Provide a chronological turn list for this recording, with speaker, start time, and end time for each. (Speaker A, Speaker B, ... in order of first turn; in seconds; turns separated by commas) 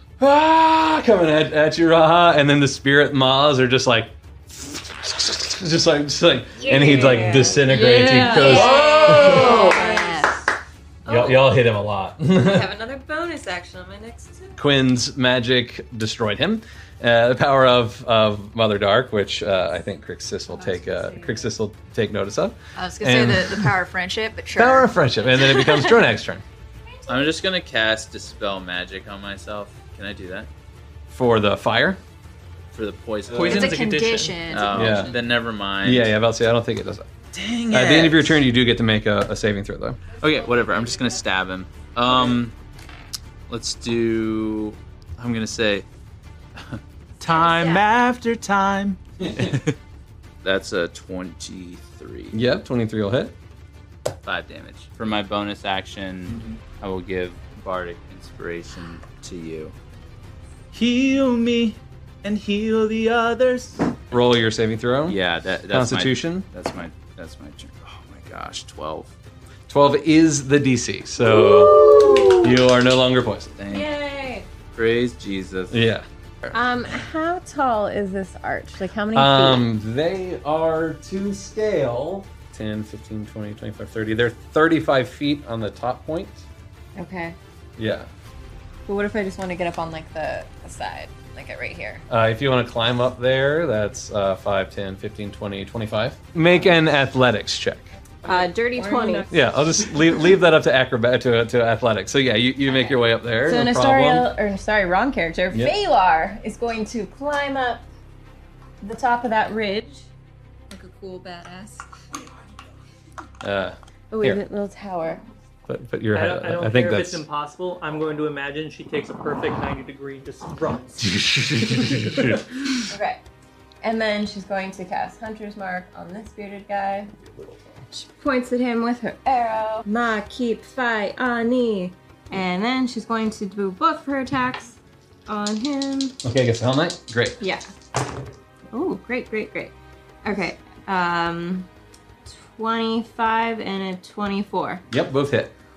Speaker A: 0.2-9.6, Speaker B: 6.6-10.4, Speaker C: 6.7-7.4, Speaker D: 7.7-9.4, Speaker C: 8.2-10.4, Speaker B: 11.1-11.4, Speaker A: 11.1-12.7, Speaker B: 12.3-14.6, Speaker A: 14.6-23.7, Speaker B: 20.5-21.4, Speaker C: 22.8-25.9, Speaker A: 24.5-26.4, Speaker E: 27.1-30.5, Speaker A: 31.1-32.0, Speaker E: 32.7-33.8, Speaker F: 33.3-34.6, Speaker C: 33.5-34.9, Speaker E: 34.4-36.1, Speaker A: 34.7-35.2, Speaker A: 35.8-37.1, Speaker E: 37.3-38.4, Speaker A: 37.7-40.0, Speaker E: 40.2-42.5, Speaker E: 43.5-45.9, Speaker E: 46.6-49.7, Speaker C: 47.3-47.8, Speaker A: 49.2-49.5, Speaker E: 50.4-52.3, Speaker A: 52.3-53.3, Speaker E: 54.2-59.7, Speaker E: 60.7-64.0, Speaker A: 64.1-65.2, Speaker E: 65.1-69.1, Speaker A: 65.7-66.5, Speaker A: 69.7-71.8, Speaker C: 71.4-72.4, Speaker B: 71.6-72.3, Speaker A: 72.4-73.5, Speaker E: 73.6-73.9, Speaker B: 73.7-74.5, Speaker E: 74.7-75.8, Speaker A: 75.7-76.0, Speaker B: 76.5-79.6, Speaker A: 79.1-86.4, Speaker B: 86.9-87.4, Speaker A: 87.8-88.1, Speaker B: 88.9-92.0, Speaker A: 92.1-97.9, Speaker B: 98.2-99.3, Speaker C: 98.3-99.3, Speaker A: 99.3-104.3, Speaker B: 103.4-107.8, Speaker B: 108.8-110.0, Speaker D: 110.7-111.8, Speaker A: 113.4-114.4, Speaker B: 114.1-115.2, Speaker A: 115.7-117.2, Speaker F: 116.1-121.1, Speaker A: 121.0-122.4, Speaker B: 122.9-123.2, Speaker B: 123.8-127.1, Speaker B: 127.9-136.2, Speaker C: 129.3-129.8, Speaker A: 136.2-137.4, Speaker B: 137.4-137.7, Speaker B: 138.7-141.7, Speaker B: 142.3-144.8, Speaker A: 144.9-145.5